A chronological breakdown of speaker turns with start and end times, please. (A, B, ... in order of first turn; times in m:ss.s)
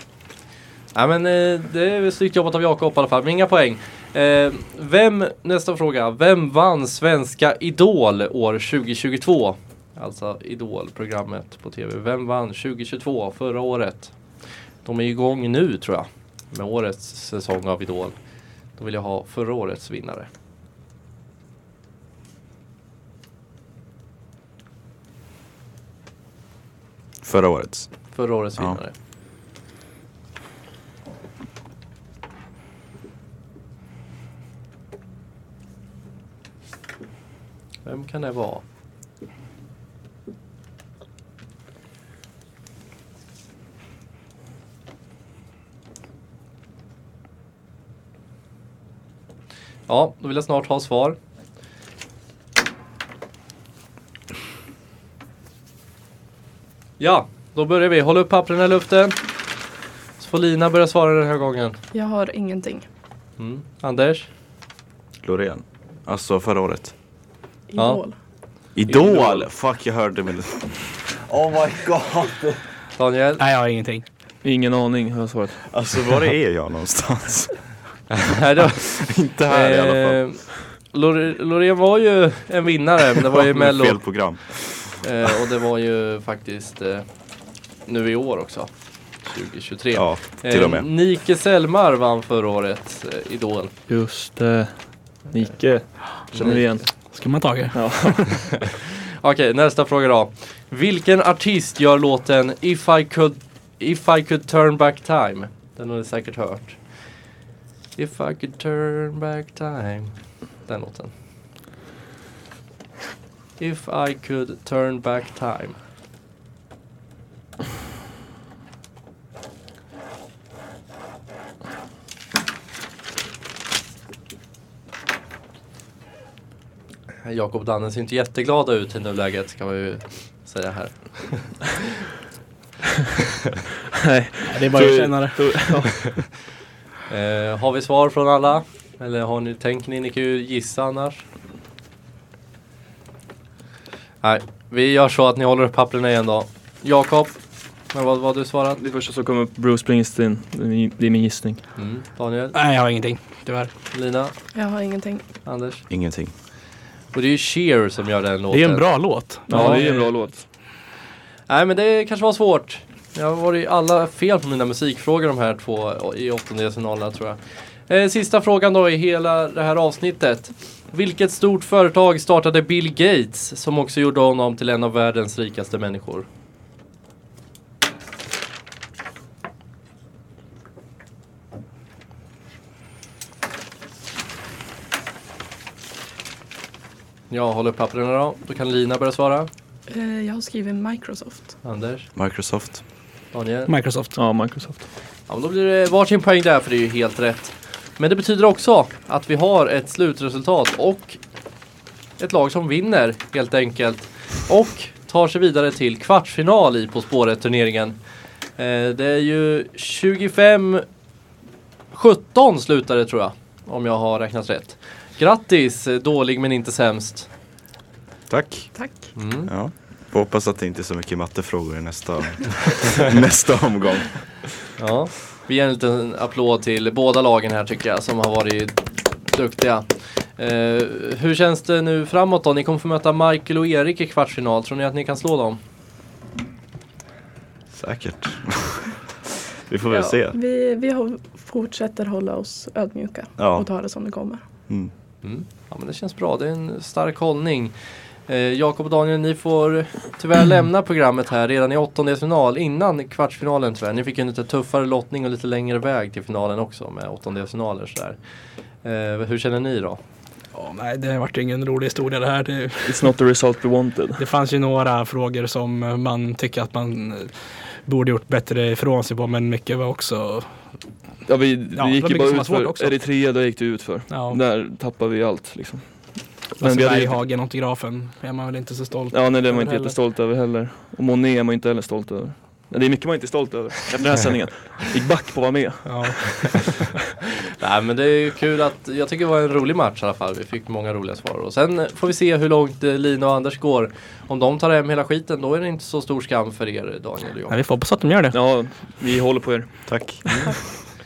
0:00.9-0:20.3 A
0:27.2-0:28.8 B
0:28.1-0:29.0 A
0:37.8-0:38.6 A
0:49.9-0:51.2 A
0:57.0-0:59.5 A
1:00.2-1:01.8 A
1:01.9-1:02.9 C
1:03.4-1:04.3 A
1:05.2-1:07.0 B
1:07.7-1:08.2 C
1:07.8-1:09.5 A
1:08.7-1:12.6 B
1:13.0-1:13.4 A
1:13.4-1:14.1 D
1:14.4-1:15.7 E
1:15.6-1:18.1 B
1:18.1-1:33.7 A
1:18.8-1:20.5 B
1:23.5-1:25.0 B
1:29.9-1:30.9 B
1:33.9-1:38.5 E
1:35.9-1:36.9 A
1:36.8-1:38.5 D
1:39.2-1:47.4 A
1:48.0-1:51.1 A
1:53.6-1:55.8 A
2:07.2-2:11.8 A
2:14.0-2:16.3 E
2:14.5-2:16.3 D
2:17.1-2:21.2 A
2:24.2-2:28.8 A
2:28.8-2:31.8 E
2:31.8-2:32.6 A
2:32.5-2:33.8 D
2:33.9-2:34.5 A
2:34.5-2:35.3 C
2:35.4-2:35.9 A
2:35.9-2:36.3 B
2:37.1-2:40.1 A
2:38.5-2:40.4 D
2:39.5-2:40.5 E
2:41.5-2:56.3 A
3:07.3-3:09.5 A
3:09.9-3:11.6 C
3:11.6-3:12.1 A
3:12.2-3:12.8 B
3:13.3-3:13.7 A
3:13.7-3:14.2 D
3:14.2-3:14.9 E
3:15.3-3:21.6 A
3:22.2-3:30.9 A
3:31.9-3:37.3 A
3:38.3-3:44.6 B
3:38.8-3:39.1 C
3:39.2-3:39.5 A
3:44.8-3:55.6 A
3:57.7-3:59.0 B
3:59.6-4:00.4 B
3:59.9-4:04.4 C
4:03.4-4:03.9 B
4:04.7-4:04.9 B
4:05.2-4:20.0 A
4:20.5-4:23.1 D
4:22.8-4:24.2 E
4:24.2-4:30.9 D
4:31.2-4:37.2 E
4:31.7-4:34.4 D
4:36.6-4:40.2 D
4:39.1-4:46.6 E
4:45.8-4:46.9 D
4:47.6-4:57.6 A
4:57.5-4:58.6 D
4:58.3-5:00.1 E
4:59.9-5:00.8 B